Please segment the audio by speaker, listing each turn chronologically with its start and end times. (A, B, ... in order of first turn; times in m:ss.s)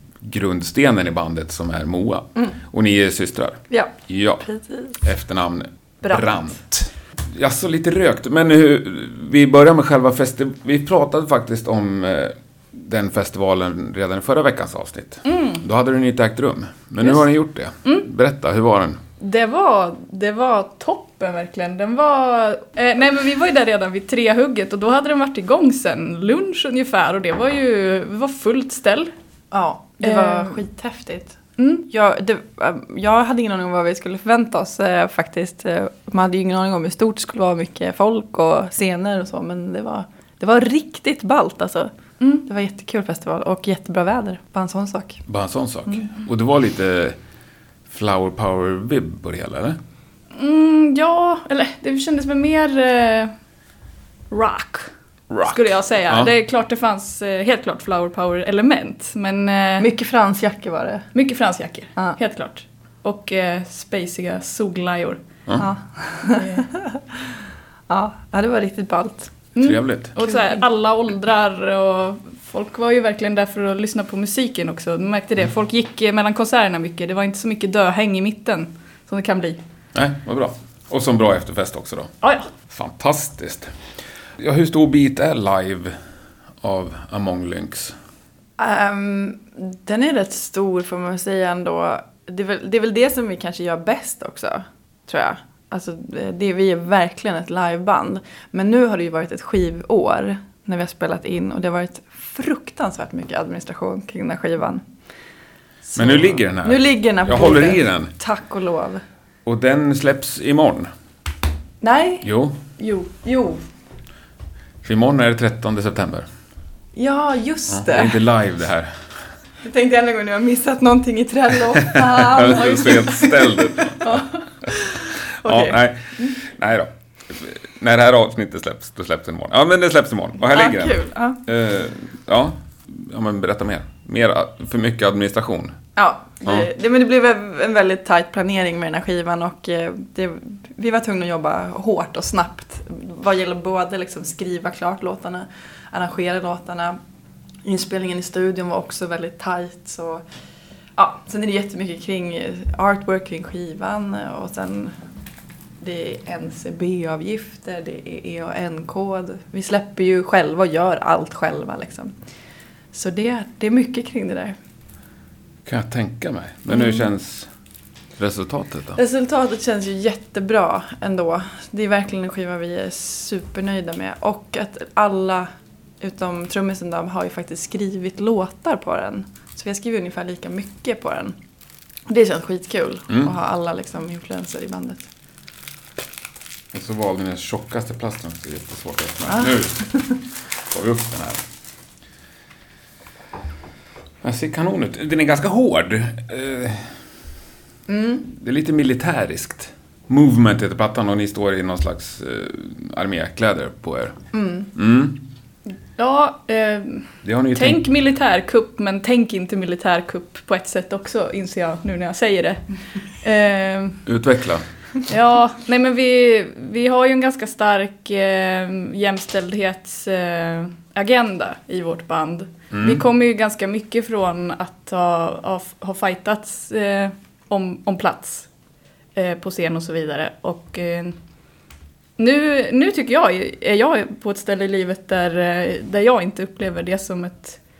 0:00.2-0:04.5 A
0:03.7-0:05.0 B
0:05.0-0:19.0 A
0:06.1-0:06.3 B
0:15.3-0:15.6 C
0:19.2-0:29.1 C
0:29.5-0:41.9 B
0:30.0-0:30.6 C
0:31.6-0:31.8 C
0:42.2-0:42.5 C
0:42.4-0:45.2 B
0:45.3-0:47.2 A
0:47.9-0:49.8 A
0:50.4-0:53.3 C
0:54.3-0:54.9 C
0:55.3-0:56.3 A
0:55.4-0:59.9 C
0:59.8-1:01.1 B
1:01.1-1:05.2 C
1:05.6-1:07.0 B
1:06.4-1:06.7 C
1:07.9-1:09.3 B
1:09.6-1:19.6 C
1:09.6-1:10.2 A
1:19.9-1:22.1 A
1:22.2-1:22.5 C
1:22.7-1:23.7 A
1:24.4-1:26.0 A
1:26.6-1:28.0 A
1:28.6-1:44.8 B
1:45.9-1:49.0 B
1:46.0-1:48.1 A
1:49.4-1:50.9 A
1:51.8-1:53.6 B
1:52.2-1:52.6 A
1:54.8-1:56.3 A
1:57.0-1:58.2 B
1:57.7-1:59.0 A
1:59.6-2:05.8 B
2:01.8-2:15.8 A
2:02.6-2:03.0 C
2:10.5-2:11.4 B
2:16.0-2:27.0 B
2:16.4-2:16.7 A
2:27.6-2:30.2 B
2:31.0-2:34.9 B
2:35.8-2:42.1 B
2:42.9-2:44.6 B
2:45.7-2:47.5 A
2:48.2-2:49.0 A
2:49.0-2:55.5 B
2:56.0-3:01.4 B
3:02.1-3:05.1 B
3:03.1-3:03.4 A
3:06.7-3:09.9 A
3:09.3-3:10.1 B
3:10.7-3:11.4 A
3:14.2-3:17.0 A
3:17.9-3:18.3 B
3:18.3-3:24.2 A
3:24.3-3:24.7 B
3:24.7-3:25.2 A
3:26.0-3:32.6 C
3:27.2-3:27.8 A
3:33.2-3:34.0 C
3:34.1-3:34.6 A
3:35.1-3:48.5 C
3:42.7-3:43.0 A
3:49.2-3:51.2 C
3:52.2-3:57.6 C